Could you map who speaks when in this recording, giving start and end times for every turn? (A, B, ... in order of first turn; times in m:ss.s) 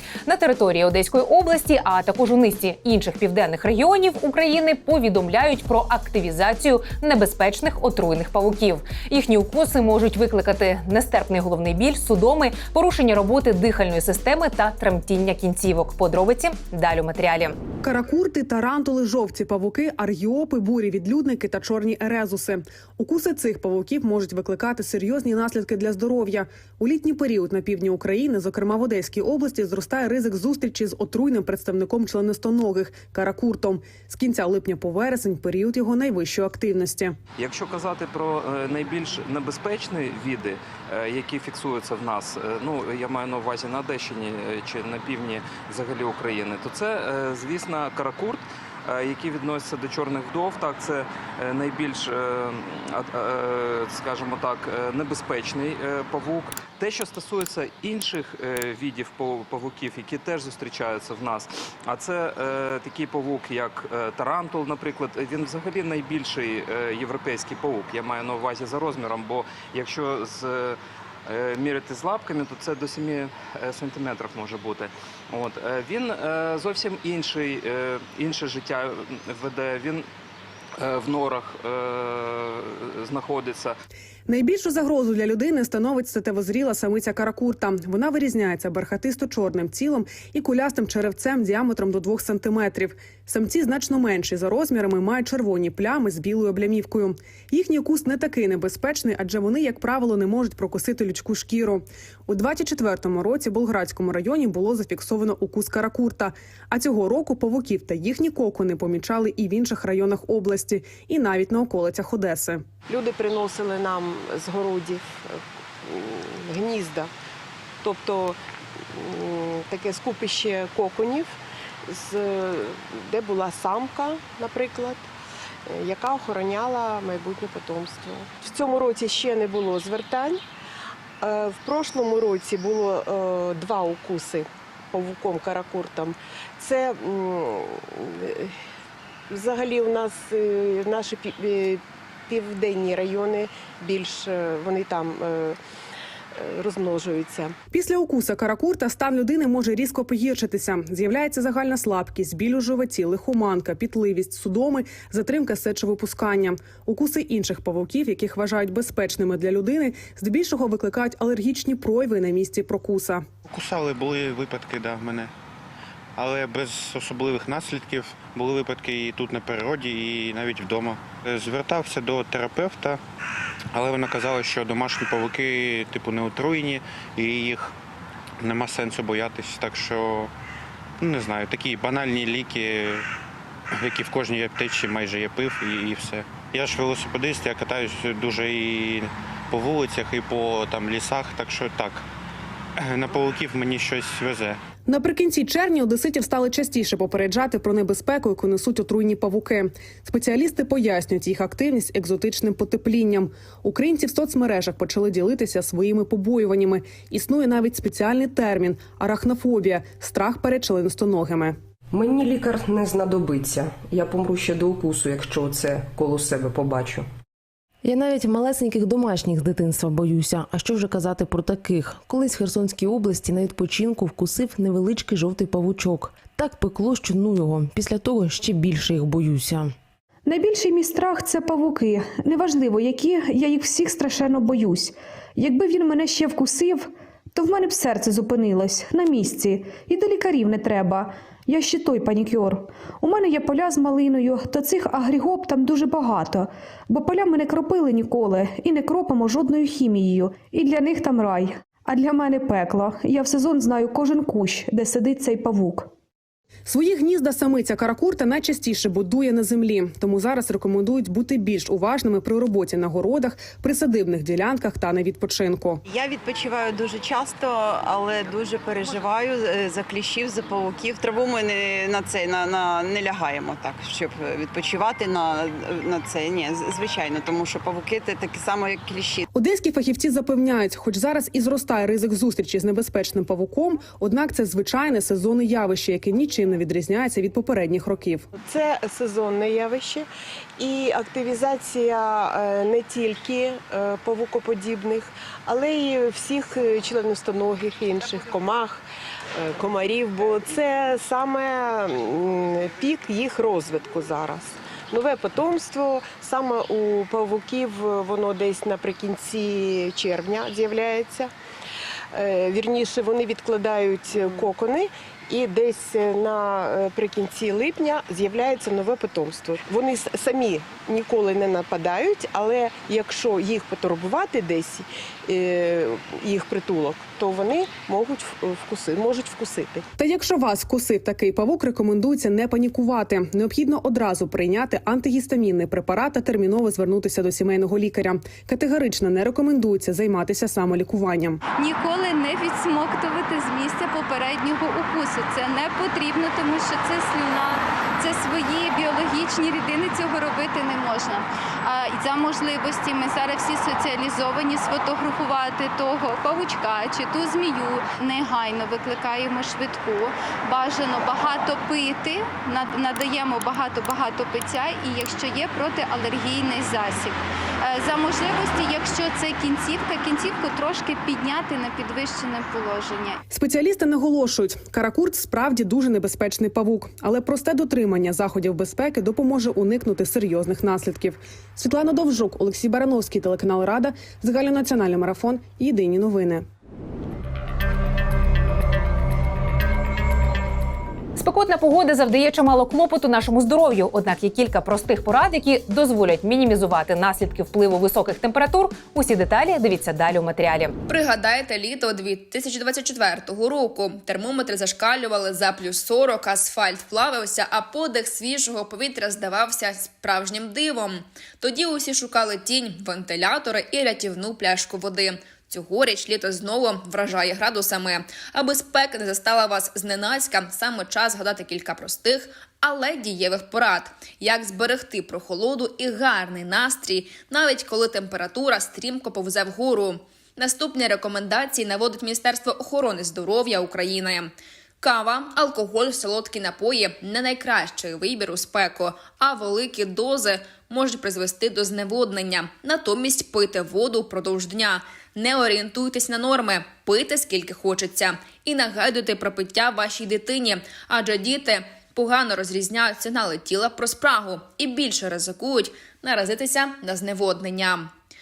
0:00.3-0:17.6 A
0:17.8-0:37.2 B
0:37.4-1:20.1 C
1:20.8-1:23.8 C
1:24.3-1:52.6 B
1:52.9-1:57.1 D
1:57.8-2:01.3 D
2:01.8-2:05.1 D
2:05.7-2:10.4 D
2:11.2-2:18.6 D
2:19.3-2:25.6 D
2:26.3-2:27.6 D
2:27.7-2:43.3 B
2:43.5-2:45.3 E
2:46.2-2:53.0 E
2:53.8-2:57.8 E
2:58.4-3:00.3 E
3:01.0-3:03.1 E
3:03.8-3:12.0 E
3:12.8-3:14.6 E
3:14.9-3:31.6 B
3:31.9-3:37.1 F
3:37.8-3:49.7 G
3:50.3-4:15.9 H
4:16.7-4:25.8 B
4:25.9-4:39.2 I
4:39.3-4:48.3 B
4:48.4-5:11.3 D
5:12.1-5:29.8 D
5:30.0-5:41.4 B
5:41.6-6:13.2 J
6:13.3-6:26.4 B
6:31.2-6:40.7 A
6:40.9-7:37.9 K